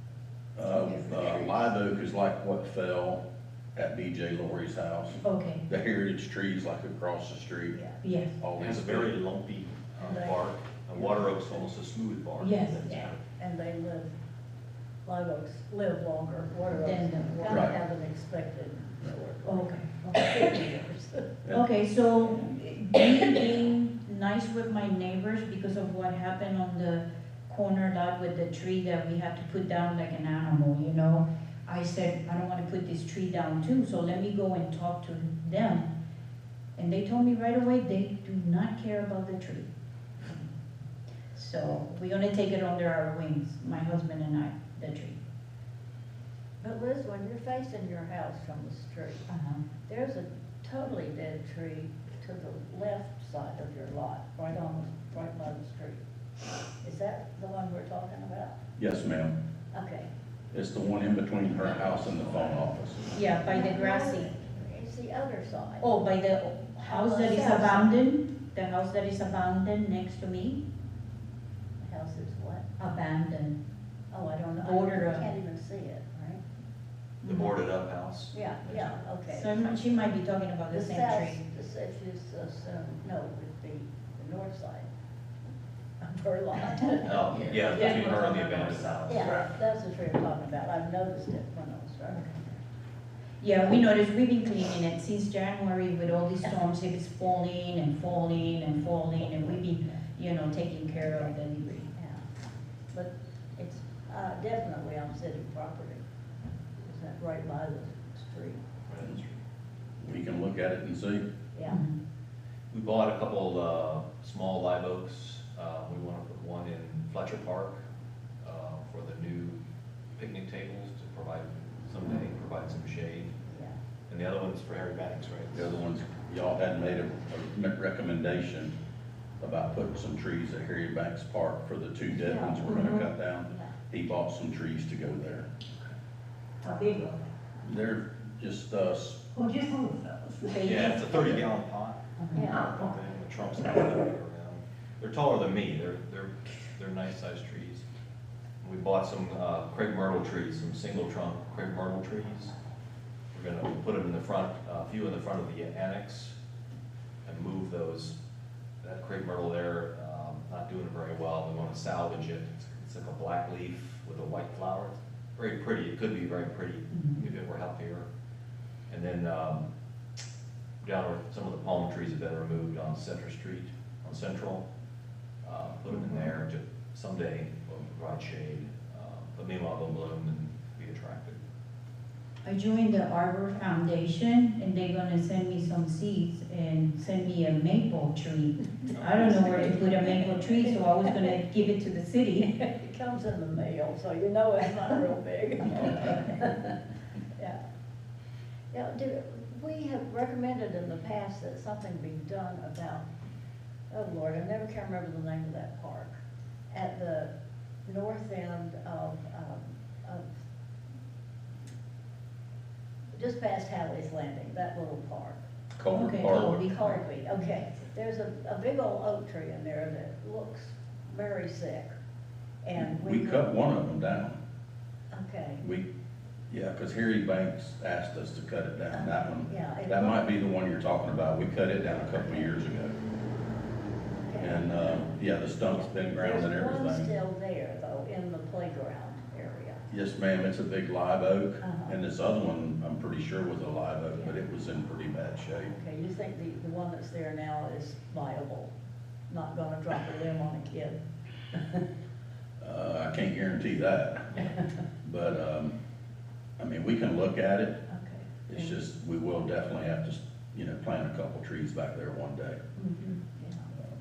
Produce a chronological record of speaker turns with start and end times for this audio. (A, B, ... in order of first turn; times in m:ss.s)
0:00.6-0:03.2 A
0:00.9-0:01.6 B
0:03.8-0:07.8 A
0:05.2-0:05.6 C
0:07.7-0:08.0 B
0:08.0-0:08.4 C
0:08.4-0:09.2 A
0:08.6-0:13.2 D
0:10.0-0:10.4 B
0:11.0-0:11.5 B
0:12.4-0:13.0 C
0:13.4-0:14.1 B
0:15.0-0:21.3 B
0:16.8-0:17.7 C
0:17.5-0:17.8 A
0:19.4-0:20.6 C
0:21.5-0:35.9 C
0:36.8-0:39.7 C
0:41.3-0:45.2 C
0:46.6-0:49.3 B
0:49.3-0:49.6 C
0:49.9-0:56.0 B
0:56.8-0:58.6 B
0:58.8-0:59.3 A
0:59.7-1:00.1 B
1:00.5-1:03.0 A
1:01.6-1:02.7 D
1:03.1-1:04.3 C
1:03.4-1:05.9 B
1:05.8-1:10.6 C
1:06.8-1:08.0 B
1:11.8-1:12.7 B
1:12.8-1:13.6 C
1:14.1-1:16.4 B
1:14.6-1:15.3 C
1:17.2-1:19.0 D
1:17.2-1:17.5 C
1:18.3-1:19.5 B
1:19.3-1:21.4 C
1:20.7-1:24.9 B
1:26.0-1:28.2 B
1:27.0-1:29.5 D
1:27.7-1:28.0 C
1:27.8-1:29.4 E
1:29.1-1:32.6 B
1:33.4-1:41.9 C
1:41.0-1:41.3 B
1:41.9-1:42.2 B
1:42.9-1:46.0 B
1:46.8-1:48.6 B
1:48.9-1:49.4 D
1:50.0-1:51.3 A
1:51.5-1:51.8 B
1:51.7-1:52.0 C
1:52.7-1:57.8 D
1:58.4-1:59.6 D
2:00.1-2:03.4 D
2:03.4-2:03.8 B
2:04.1-2:05.8 D
2:05.5-2:08.7 A
2:09.4-2:15.5 A
2:12.1-2:12.7 B
2:16.6-2:17.3 E
2:17.6-2:19.2 A
2:19.4-2:20.8 E
2:20.4-2:21.1 C
2:20.6-2:27.8 D
2:22.3-2:22.8 E
2:22.4-2:22.7 B
2:28.6-2:32.5 D
2:33.3-2:36.4 D
2:37.2-2:38.2 D
2:38.8-2:48.1 D
2:46.9-2:47.2 C
2:48.9-2:49.7 D
2:50.8-2:54.6 D
2:55.4-3:01.4 D
3:02.4-3:12.6 C
3:09.0-3:10.4 B
3:09.1-3:09.7 D
3:12.4-3:16.8 B
3:18.7-3:23.0 B
3:23.9-3:26.2 B
3:26.7-3:27.3 B
3:27.8-3:30.2 B
3:33.1-3:35.4 B
3:35.8-3:36.6 A
3:35.9-3:37.0 C
3:36.2-3:41.9 B
3:42.6-3:43.5 B
3:42.8-3:44.4 A
3:45.1-3:45.6 B
3:45.6-3:45.9 A
3:46.5-3:53.0 A
3:48.9-3:50.3 B
3:54.2-3:54.8 B
3:54.4-3:57.1 A
3:56.1-3:59.8 B
3:59.9-4:05.7 A
4:01.6-4:02.0 B
4:05.7-4:08.7 B
4:09.3-4:11.0 B
4:11.5-4:11.8 B
4:12.6-4:14.5 A
4:15.0-4:15.7 A
4:16.6-4:17.8 A
4:17.9-4:18.7 B
4:18.5-4:22.6 A
4:22.8-4:23.7 B